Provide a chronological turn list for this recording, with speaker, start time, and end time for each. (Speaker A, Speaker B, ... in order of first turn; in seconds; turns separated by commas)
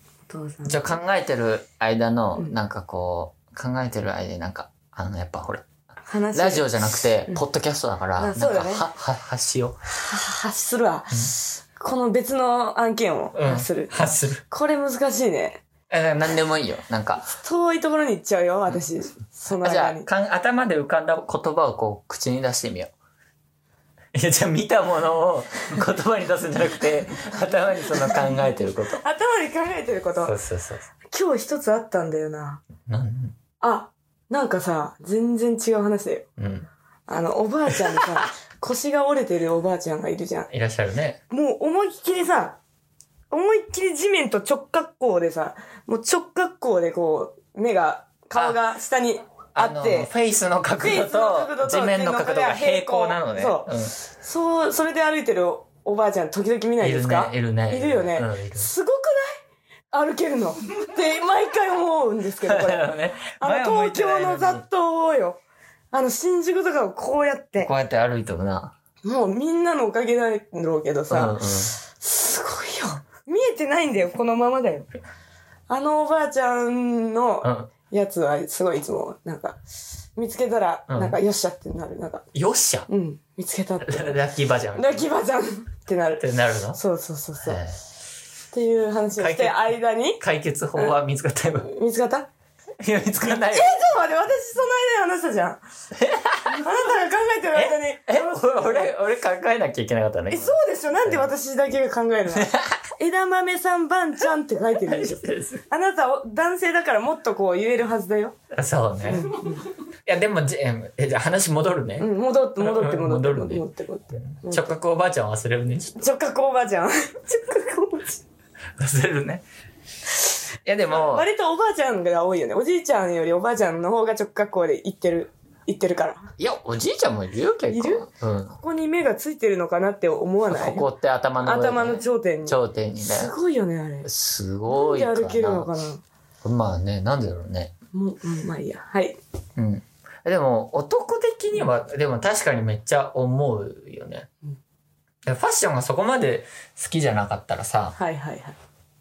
Speaker A: 0.3-1.0, Speaker B: 0.7-5.7, Speaker A: 6.1-6.7, Speaker B: 6.3-9.8, Speaker A: 8.2-8.9, Speaker A: 9.9-15.6, Speaker B: 13.3-14.4, Speaker B: 15.9-17.3, Speaker A: 17.3-20.1, Speaker B: 19.5-22.9, Speaker B: 24.1-29.0, Speaker A: 29.0-30.4, Speaker B: 30.2-30.9, Speaker A: 31.1-32.6, Speaker B: 32.9-33.4, Speaker A: 33.6-36.3, Speaker B: 36.4-36.7, Speaker A: 37.1-40.5, Speaker B: 40.5-41.2, Speaker A: 41.3-42.6, Speaker A: 43.3-50.1, Speaker B: 49.5-54.0, Speaker A: 50.8-59.4, Speaker B: 56.8-58.7, Speaker A: 59.9-65.4, Speaker B: 62.4-64.6, Speaker A: 65.9-67.7, Speaker B: 67.6-68.7, Speaker A: 69.0-74.9, Speaker B: 71.1-71.8, Speaker A: 75.7-79.6, Speaker B: 77.4-77.7, Speaker A: 80.2-82.3, Speaker B: 80.9-81.2, Speaker B: 82.3-82.9, Speaker A: 82.9-84.2, Speaker B: 83.8-85.1, Speaker A: 84.8-87.6, Speaker B: 86.2-86.8, Speaker B: 87.4-87.8, Speaker A: 88.5-90.2, Speaker B: 89.2-91.7, Speaker A: 91.6-92.3, Speaker B: 92.8-93.8, Speaker A: 93.2-95.6, Speaker B: 96.0-96.7, Speaker A: 96.5-98.9, Speaker B: 97.5-101.3, Speaker A: 100.3-108.4, Speaker B: 102.3-102.8, Speaker B: 104.8-105.6, Speaker B: 108.5-113.6, Speaker A: 109.0-109.7, Speaker A: 112.0-114.8, Speaker B: 114.2-116.0, Speaker A: 115.9-118.2, Speaker B: 118.8-119.5, Speaker B: 120.7-121.3, Speaker A: 120.9-126.3, Speaker B: 126.4-128.6, Speaker A: 127.7-130.9, Speaker B: 130.5-133.3, Speaker A: 131.4-134.1, Speaker B: 134.1-135.7, Speaker A: 134.7-136.0, Speaker B: 136.4-137.7, Speaker A: 137.9-139.2, Speaker B: 139.6-144.3, Speaker B: 145.2-148.0, Speaker A: 148.0-148.6